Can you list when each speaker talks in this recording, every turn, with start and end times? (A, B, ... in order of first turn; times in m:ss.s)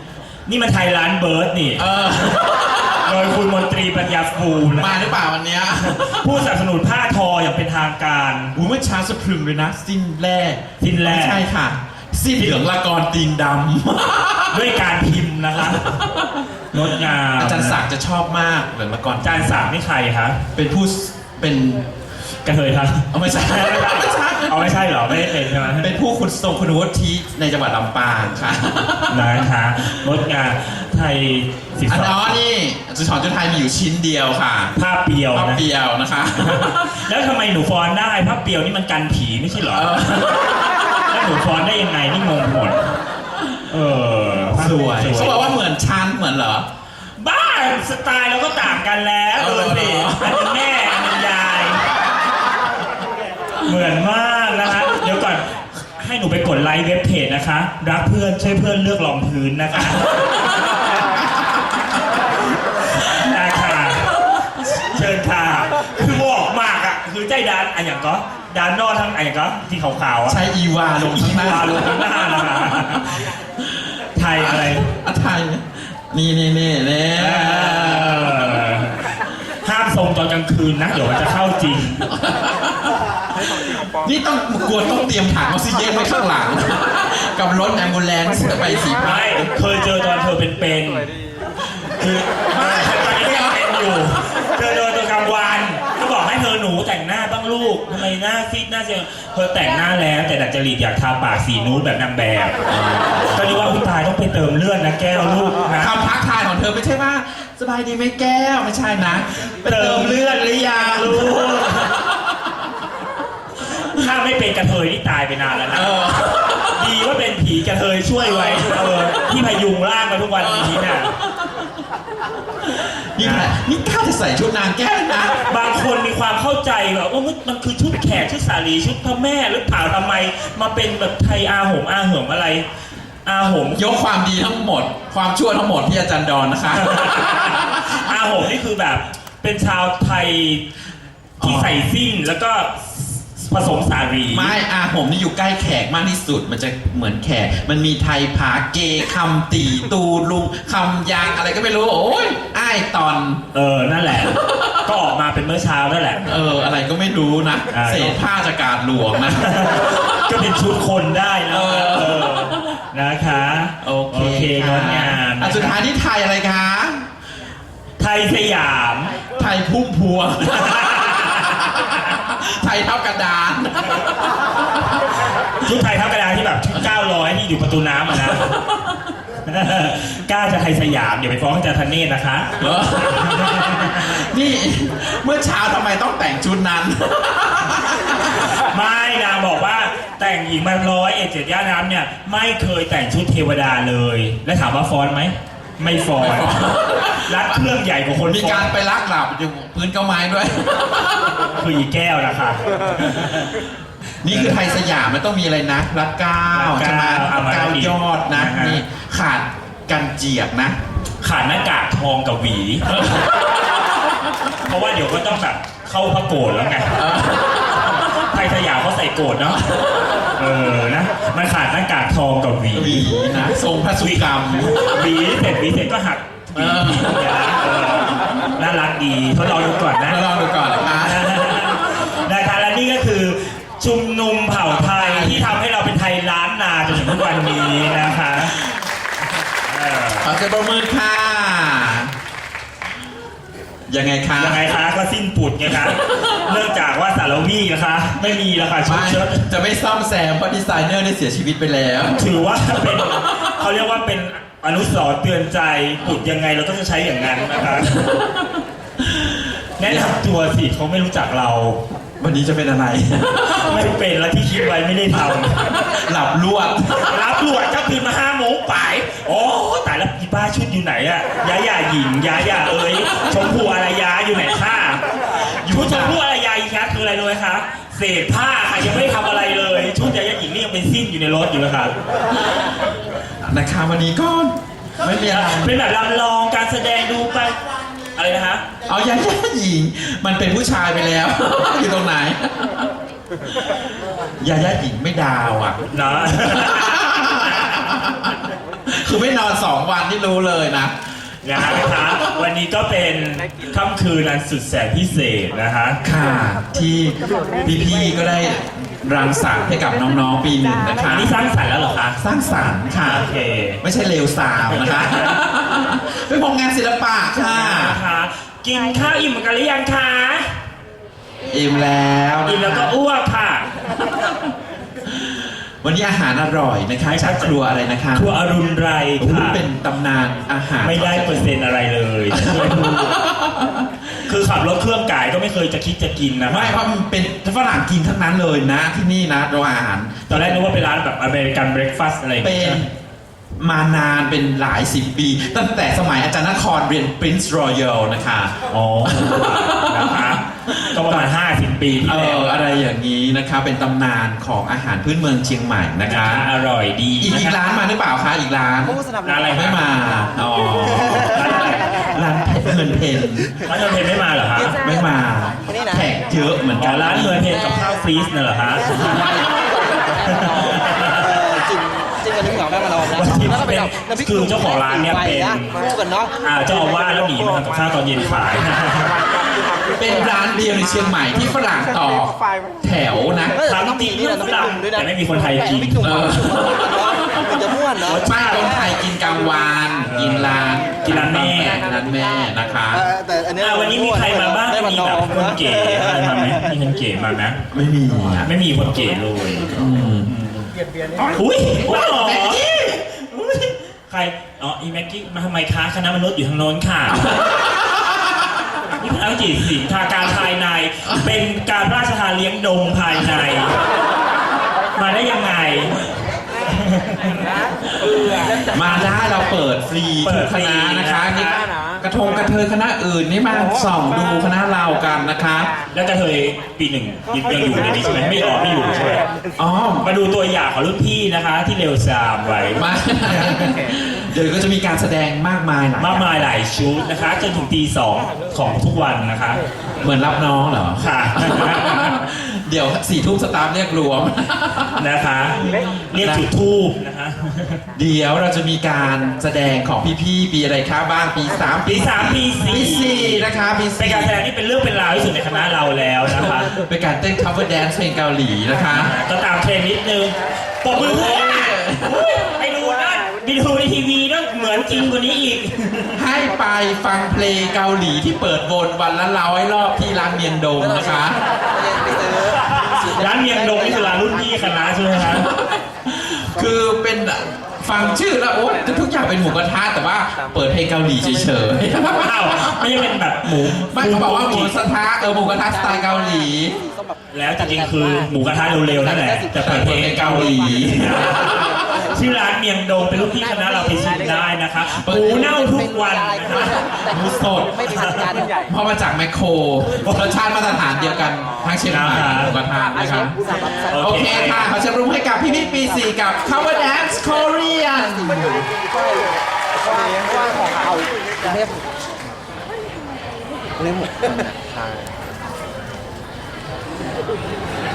0:00.5-0:01.9 A
0:01.8-0:03.1 B
0:02.9-0:05.0 A
0:04.7-0:06.5 B
0:05.8-0:08.6 A
0:08.6-0:15.0 B
0:10.8-0:11.4 A
0:14.5-0:16.1 A
0:15.6-0:16.3 B
0:16.7-0:17.8 A
0:17.4-0:19.7 B
0:19.2-0:20.4 A
0:20.6-0:21.9 B
0:22.4-0:25.9 A
0:23.1-0:30.0 B
0:29.1-0:32.4 A
0:31.9-0:34.8 B
0:34.8-0:35.6 A
0:35.3-0:37.0 B
0:36.4-0:40.0 A
0:39.7-0:40.7 B
0:41.0-0:42.9 A
0:43.7-0:45.6 A
0:44.5-0:46.7 B
0:47.2-0:51.8 A
0:49.4-0:50.6 B
0:53.6-1:00.7 A
1:02.9-1:10.4 A
1:10.3-1:13.1 B
1:11.0-1:13.3 A
1:14.1-1:14.9 A
1:14.4-1:18.4 B
1:17.2-1:22.2 A
1:22.1-1:29.5 B
1:29.0-1:31.1 A
1:31.8-1:45.9 A
1:32.5-1:33.6 B
1:42.9-1:43.3 B
1:45.7-1:51.8 B
1:49.7-1:52.0 A
1:53.7-1:56.0 A
1:55.7-1:56.9 B
1:56.7-2:01.1 A
1:58.2-1:59.1 B
2:00.4-2:01.7 B
2:02.6-2:05.5 B
2:03.2-2:03.5 A
2:05.4-2:12.6 A
2:13.2-2:13.9 A
2:13.7-2:18.0 B
2:16.7-2:20.6 A
2:21.4-2:21.8 B
2:21.4-2:24.6 A
2:24.3-2:33.4 B
2:33.5-2:36.3 A
2:34.3-2:34.7 B
2:36.2-2:40.1 B
2:37.7-2:38.2 A
2:39.4-2:45.8 A
2:41.5-2:42.6 B
2:43.8-2:47.1 B
2:48.0-2:49.2 A
2:49.4-2:54.8 B
2:50.6-2:51.6 A
2:55.6-2:58.6 A
2:58.3-2:58.8 B
2:59.4-3:02.6 A
3:02.6-3:08.3 B
3:03.2-3:04.0 A
3:08.4-3:18.7 A
3:16.2-3:17.7 B
3:18.3-3:21.4 B
3:21.4-3:23.7 A
3:24.2-3:30.8 B
3:24.3-3:24.6 A
3:26.5-3:28.8 A
3:31.2-3:33.0 A
3:32.8-3:33.5 B
3:34.5-3:37.1 A
3:37.0-3:38.0 B
3:37.9-3:43.1 A
3:42.7-3:44.9 B
3:44.0-3:50.3 A
3:46.5-3:47.6 B
3:50.0-3:51.4 B
3:50.9-3:58.6 A
3:54.7-3:55.6 B
3:59.6-4:00.3 A
4:00.2-4:02.1 B
4:03.9-4:04.7 B
4:04.4-4:09.5 A
4:08.9-4:12.3 B
4:12.1-4:18.0 A
4:18.0-4:18.3 B
4:19.0-4:20.2 B
4:19.8-4:21.8 A
4:22.2-4:23.9 B
4:23.5-4:26.0 A
4:25.7-4:27.2 B
4:26.9-4:41.9 A
4:35.6-4:36.2 B
4:43.4-4:45.8 B
4:45.2-4:47.6 A
4:48.2-4:48.6 A
4:48.8-4:52.7 B
4:54.4-5:01.0 B
4:55.9-4:57.8 A
5:01.4-5:06.0 A
5:01.6-5:02.1 B
5:06.0-5:11.4 B
5:11.1-5:12.2 A
5:12.2-5:13.3 B
5:12.9-5:13.8 A
5:13.8-5:18.0 B
5:14.7-5:15.4 A
5:17.4-5:20.6 A
5:21.5-5:22.9 B
5:22.4-5:23.7 A
5:25.1-5:28.3 B
5:27.1-5:27.5 A
5:28.1-5:29.7 A
5:29.2-5:31.5 B
5:30.8-5:33.3 A
5:32.3-5:33.9 B
5:34.2-5:36.7 A
5:36.5-5:40.8 B
5:40.3-5:42.8 A
5:42.4-5:42.9 B
5:43.6-5:48.5 B
5:48.7-5:52.6 A
5:49.0-5:51.3 B
5:52.0-5:56.5 B
5:56.0-5:57.6 A
5:57.2-6:03.6 B
5:59.2-5:59.8 A
6:01.2-6:02.0 A
6:03.6-6:04.8 A
6:04.7-6:07.5 B
6:06.8-6:09.4 A
6:09.1-6:09.7 C
6:10.2-6:11.4 A
6:11.2-6:16.3 C
6:13.0-6:15.8 A
6:16.4-6:19.2 A
6:20.0-6:23.6 B
6:23.5-6:26.3 A
6:23.7-6:25.0 C
6:25.7-6:26.2 C
6:26.0-6:27.5 B
6:27.2-6:28.2 C
6:27.9-6:29.0 A
6:28.1-6:33.1 B
6:30.1-6:31.9 A
6:33.1-6:35.4 C
6:33.6-6:37.6 A
6:37.7-6:38.5 B
6:38.4-6:39.8 A
6:39.7-6:40.7 B
6:41.2-6:43.0 B
6:41.3-6:47.4 A
6:47.3-6:47.9 B
6:48.9-6:53.8 A
6:55.0-6:56.1 A
6:56.7-6:57.4 A
6:58.3-7:05.7 B
7:00.2-7:01.7 A
7:05.9-7:09.2 A
7:09.6-7:10.1 B
7:10.0-7:13.7 A
7:12.8-7:16.5 B
7:16.0-7:19.6 A
7:20.0-7:25.1 B
7:21.0-7:22.2 A
7:25.0-7:27.8 A
7:25.6-7:26.5 B
7:28.0-7:34.4 B
7:31.8-7:36.8 A
7:36.5-7:39.1 B
7:38.9-7:46.2 A
7:40.9-7:42.3 B
7:46.2-7:51.5 B
7:51.8-7:53.6 C
7:52.8-7:55.5 A
7:55.2-8:06.8 B
8:02.2-8:04.8 A
8:06.0-8:06.4 C
8:07.3-8:17.1 A
8:09.2-8:09.5 C
8:09.6-8:11.3 B
8:11.6-8:12.0 C
8:15.0-8:15.5 B
8:15.5-8:17.1 C
8:17.1-8:17.9 B
8:17.7-8:18.6 C
8:17.9-8:18.3 A
8:18.7-8:23.4 B
8:21.9-8:22.6 A
8:23.0-8:23.9 C
8:23.9-8:24.7 A
8:23.9-8:28.6 B